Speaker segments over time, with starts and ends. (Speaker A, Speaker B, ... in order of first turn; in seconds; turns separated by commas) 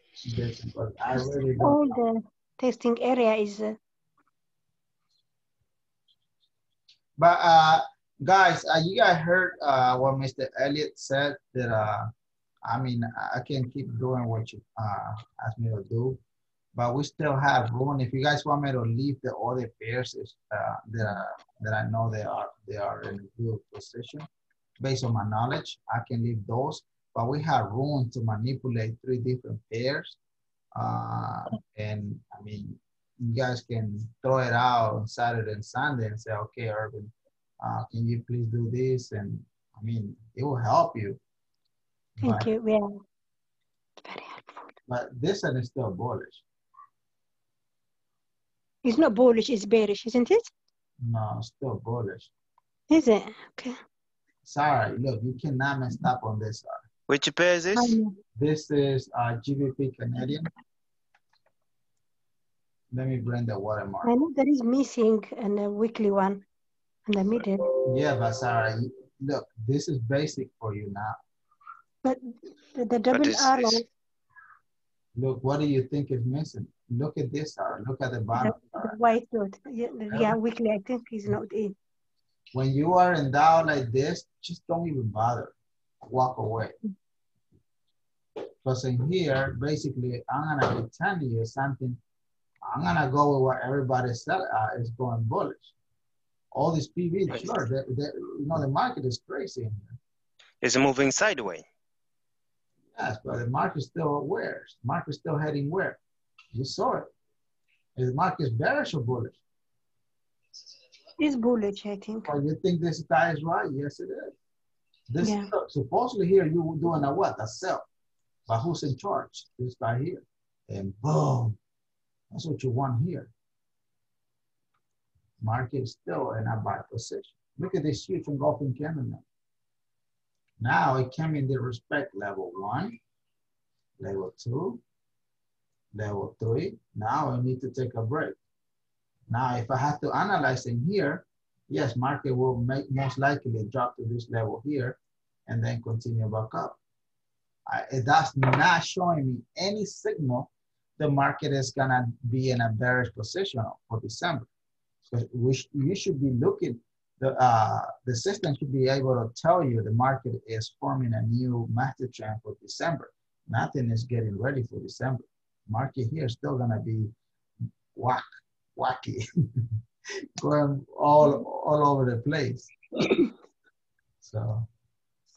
Speaker A: 0.2-2.0, Speaker B: 1.1-3.8, Speaker A: 7.2-12.1, Speaker A: 12.6-16.2, Speaker A: 16.7-24.3, Speaker A: 24.8-30.2, Speaker A: 30.7-41.2, Speaker A: 42.2-42.5, Speaker B: 42.2-42.9, Speaker B: 44.0-44.7, Speaker A: 44.9-46.4, Speaker B: 48.8-50.5, Speaker A: 51.0-52.3, Speaker B: 52.9-53.8, Speaker A: 54.4-56.8, Speaker C: 57.1-58.0, Speaker B: 57.7-58.1, Speaker A: 58.3-60.5, Speaker A: 62.9-64.1, Speaker B: 64.0-66.4, Speaker B: 67.1-67.7, Speaker A: 67.8-71.2, Speaker B: 72.7-73.8, Speaker C: 73.1-73.8, Speaker A: 75.1-79.0, Speaker B: 78.4-81.7, Speaker A: 80.1-80.4, Speaker A: 82.5-86.7, Speaker A: 88.6-92.0, Speaker A: 92.6-95.7, Speaker A: 96.5-100.0, Speaker C: 100.6-101.7, Speaker A: 102.9-106.0, Speaker A: 106.5-107.1, Speaker A: 108.0-109.4, Speaker B: 111.2-112.3, Speaker A: 112.2-114.3, Speaker A: 115.1-117.8, Speaker B: 115.2-115.5, Speaker A: 118.5-121.6, Speaker A: 122.3-123.3, Speaker A: 125.4-129.2, Speaker A: 130.6-133.0, Speaker A: 134.0-134.8, Speaker A: 135.9-138.4, Speaker A: 139.3-146.8, Speaker A: 147.7-154.5, Speaker A: 155.1-167.1, Speaker A: 167.9-168.2, Speaker A: 168.7-169.7, Speaker A: 170.4-172.7, Speaker A: 174.2-174.7